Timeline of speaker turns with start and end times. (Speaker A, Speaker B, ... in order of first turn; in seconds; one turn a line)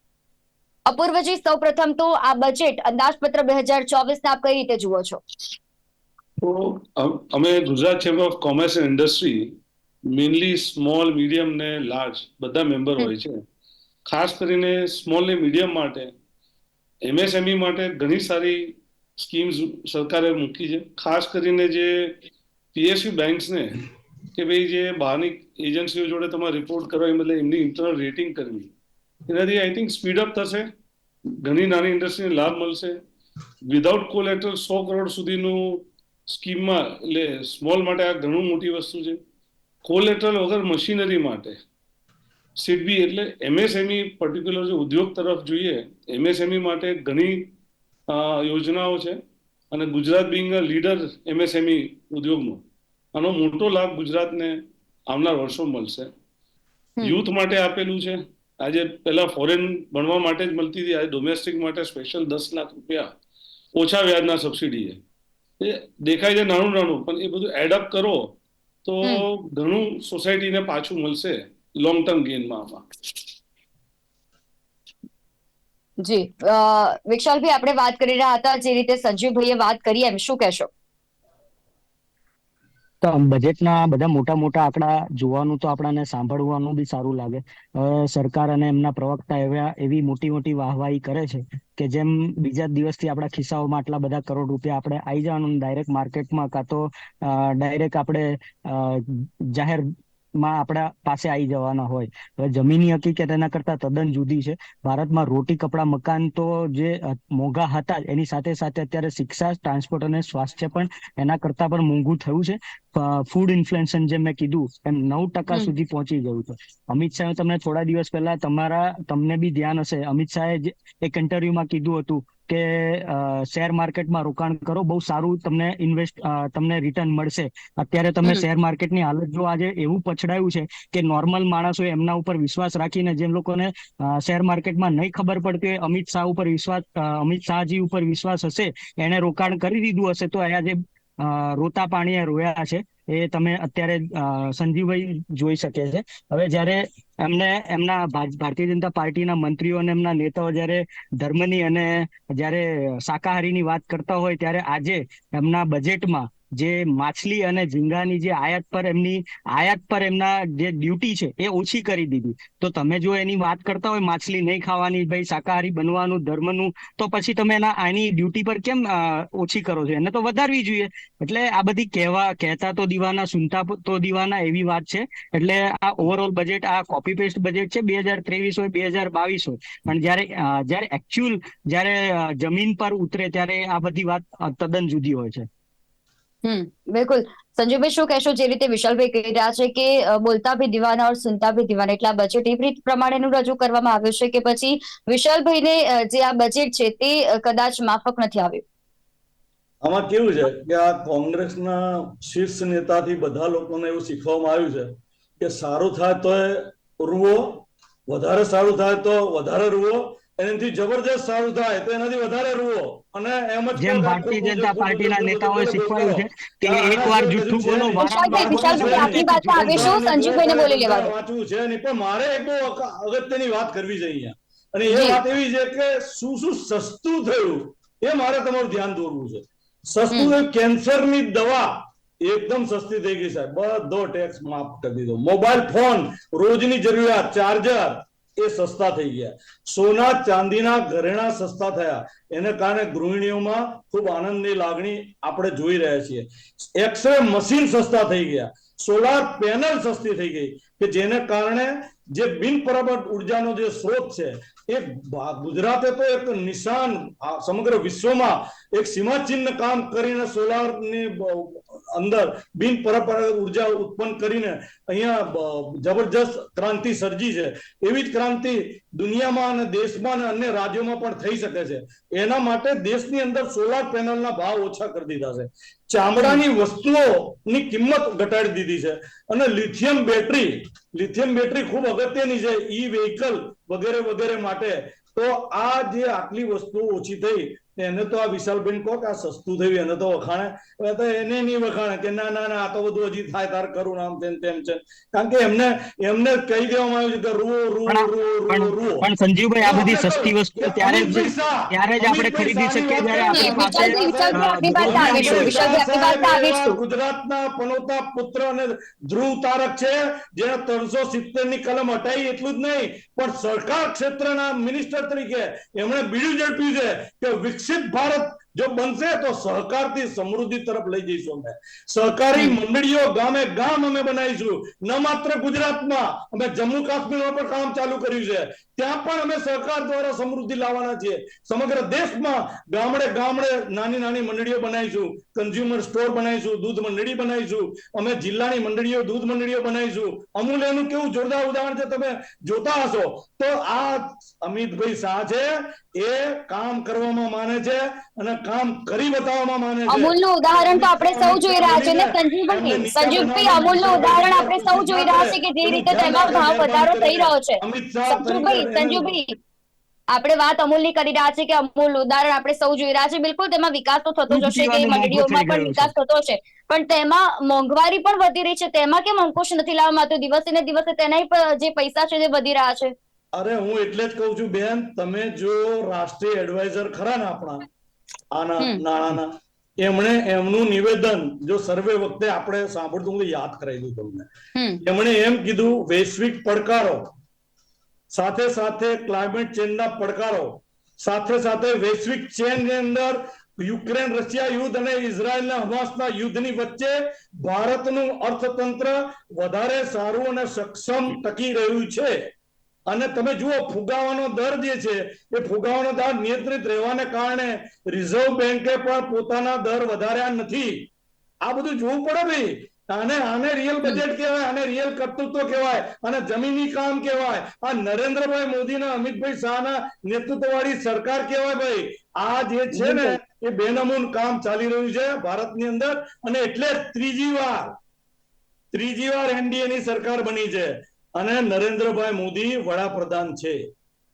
Speaker A: 0.9-5.2
Speaker B: 6.4-9.6
Speaker B: 10.1-13.4
Speaker B: 14.1-16.1
Speaker B: 17.1-22.2
Speaker B: 22.7-23.8
Speaker B: 24.4-28.7
Speaker B: 29.3-30.7
Speaker B: 31.4-33.0
Speaker B: 33.7-39.2
Speaker B: 39.9-41.6
Speaker B: 42.6-47.5
Speaker B: 48.1-49.2
Speaker B: 49.7-52.6
Speaker B: 53.1-56.1
Speaker B: 57.0-63.1
Speaker B: 63.8-65.0
Speaker B: 65.6-68.3
Speaker B: 68.8-72.9
Speaker A: 76.0-80.7
Speaker C: 83.0-99.8
Speaker C: 100.4-185.5
Speaker A: 186.4-198.6
Speaker D: 199.8-299.1
Speaker C: 213.8-220.0
Speaker A: 218.0-221.1
Speaker A: 224.9-225.2
Speaker C: 297.9-305.8
Speaker D: 299.6-359.2
Speaker A: 303.3-306.8
Speaker A: 349.9-359.3
Speaker A: 360.1-372.9
Speaker C: 364.3-365.9
Speaker D: 373.3-377.7
Speaker D: 378.3-384.3
Speaker A: 384.6-384.8
Speaker D: 384.8-387.0
Speaker D: 388.1-402.3
Speaker D: 402.9-410.9
Speaker D: 411.4-427.8
Speaker A: 422.7-423.2
Speaker D: 428.7-433.6